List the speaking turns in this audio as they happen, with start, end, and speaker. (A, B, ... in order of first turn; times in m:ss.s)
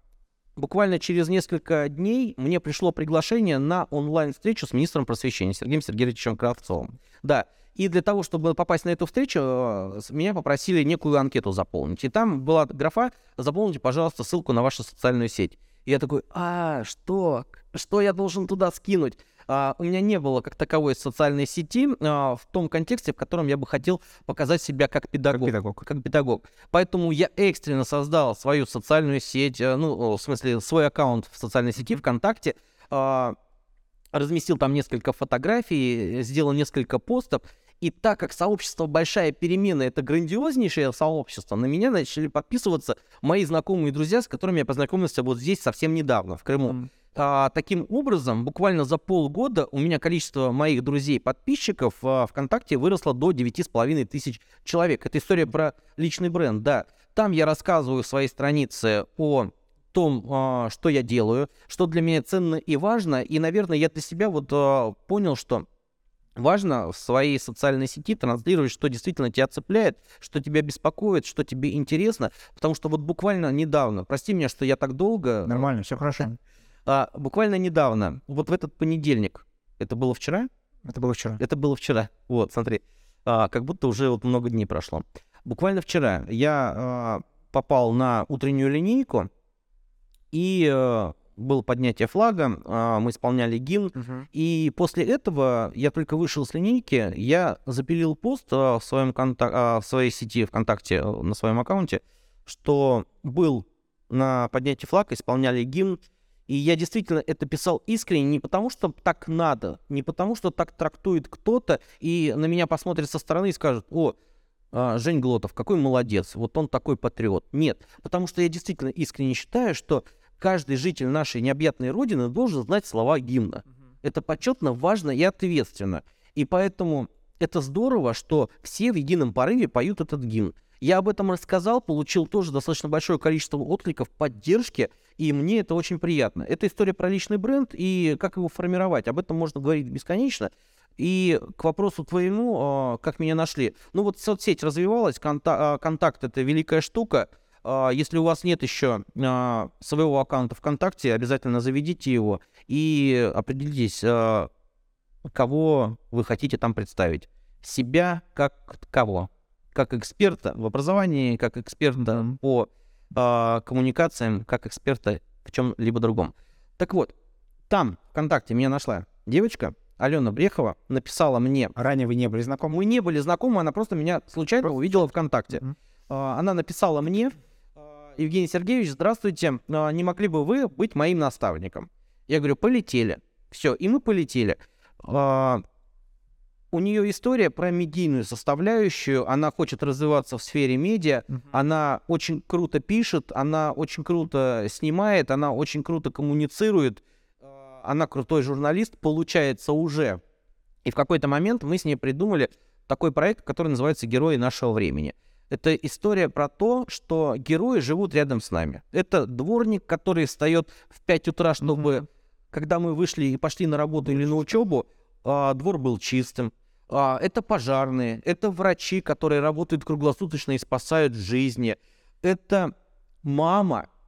0:00.6-0:33.4 A
0:25.3-0:25.8 B
0:34.1-1:05.6 A
1:06.4-1:15.7 A
1:15.4-1:16.4 B
1:16.8-1:20.5 A
1:20.8-1:21.4 B
1:21.4-1:29.3 A
1:30.3-1:54.1 A
1:34.0-1:34.2 B
1:54.7-2:34.5 A
2:35.2-2:47.1 A
2:47.7-2:51.7 A
2:51.8-2:52.7 B
2:52.7-2:57.3 A
2:58.0-3:05.6 A
3:06.7-3:20.2 A
3:20.8-3:42.7 A
3:43.2-3:43.9 A